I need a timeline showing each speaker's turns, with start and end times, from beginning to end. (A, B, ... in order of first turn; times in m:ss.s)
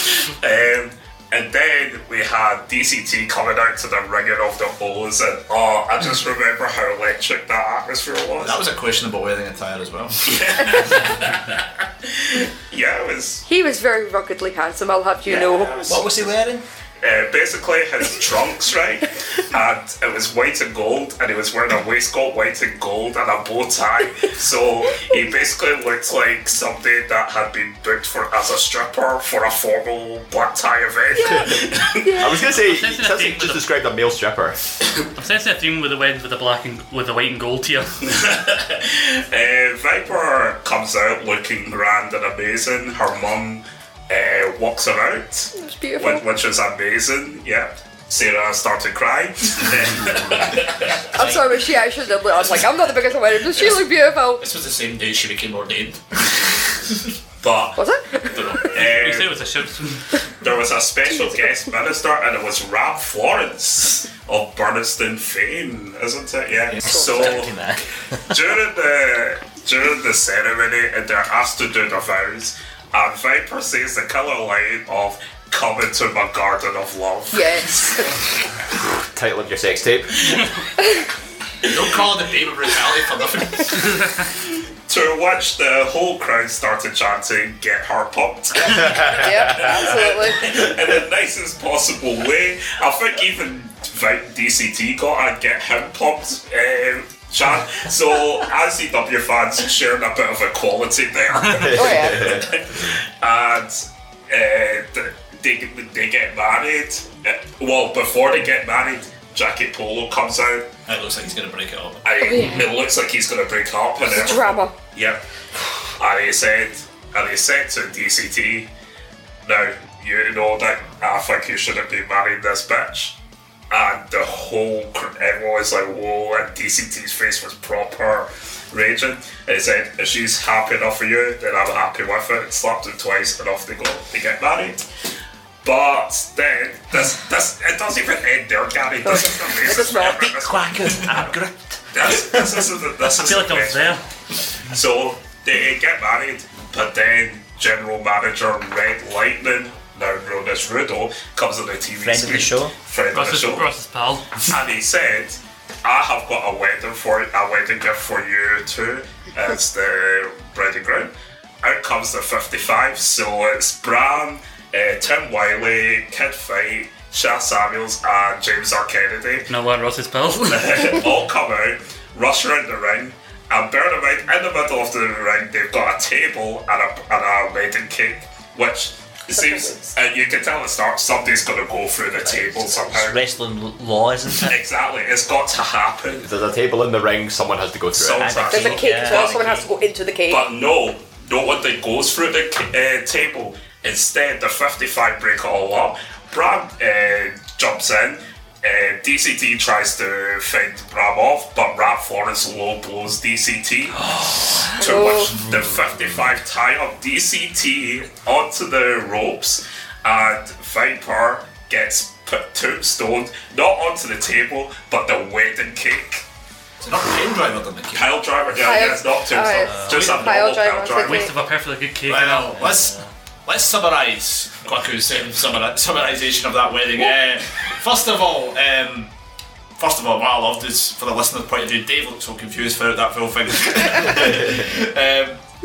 0:00.4-0:08.6 A
0:08.4-0:10.4 B
0:10.3-0:11.4 A
0:12.4-0:13.4 A
0:13.5-0:15.8 C
0:15.3-0:16.6 D
0:15.6-0:16.1 A
0:17.0-0:32.1 A
0:31.2-0:31.5 C
0:32.0-0:32.5 C
0:32.2-0:34.6 E
0:32.6-0:33.7 F
0:35.2-0:37.9 F
0:38.1-0:51.0 A
0:45.6-0:46.2 C
0:51.1-0:54.4 C
0:53.5-0:53.8 B
0:54.4-0:56.2 B
0:57.4-0:57.8 A
0:57.8-0:58.7 C
0:58.3-0:58.6 B
0:58.7-0:59.3 A
0:58.8-1:00.0 F
1:00.4-1:07.5 A
1:01.1-1:01.6 C
1:06.9-1:07.4 C
1:06.9-1:07.8 D
1:08.3-1:17.9 A
1:17.3-1:18.2 C
1:18.8-1:20.1 E
1:21.7-1:23.9 B
1:24.9-1:50.7 A
1:29.1-1:30.6 C
1:41.6-1:42.5 E
1:41.8-1:42.3 C
1:50.9-1:52.0 B
1:52.0-1:55.2 A
1:52.3-1:52.7 C
1:54.1-1:54.8 C
1:56.0-1:58.7 A
1:59.4-2:03.1 A
2:03.7-2:14.8 A
2:15.6-2:20.6 A
2:19.0-2:20.3 C
2:20.0-2:22.5 D
2:21.9-2:23.9 A
2:23.1-2:24.0 D
2:23.3-2:24.0 F
2:24.7-2:33.7 A
2:32.0-2:32.7 D
2:33.1-2:34.4 F
2:34.5-2:49.5 A
2:49.5-2:51.0 F
2:50.5-3:03.2 A
2:59.3-3:00.0 C
3:02.3-3:04.5 D
3:04.4-3:06.2 A
3:06.2-3:08.4 E
3:08.0-3:09.6 A
3:08.2-3:09.7 D
3:08.5-3:10.5 C
3:10.3-3:24.0 A
3:24.0-3:24.7 D
3:24.8-3:25.4 C
3:24.8-3:36.2 A
3:36.8-3:38.1 B
3:37.9-3:41.3 A
3:38.6-3:41.3 C
3:41.0-3:42.6 F
3:42.1-3:43.0 B
3:42.5-3:43.1 D
3:43.5-3:49.1 B
3:49.8-3:55.4 B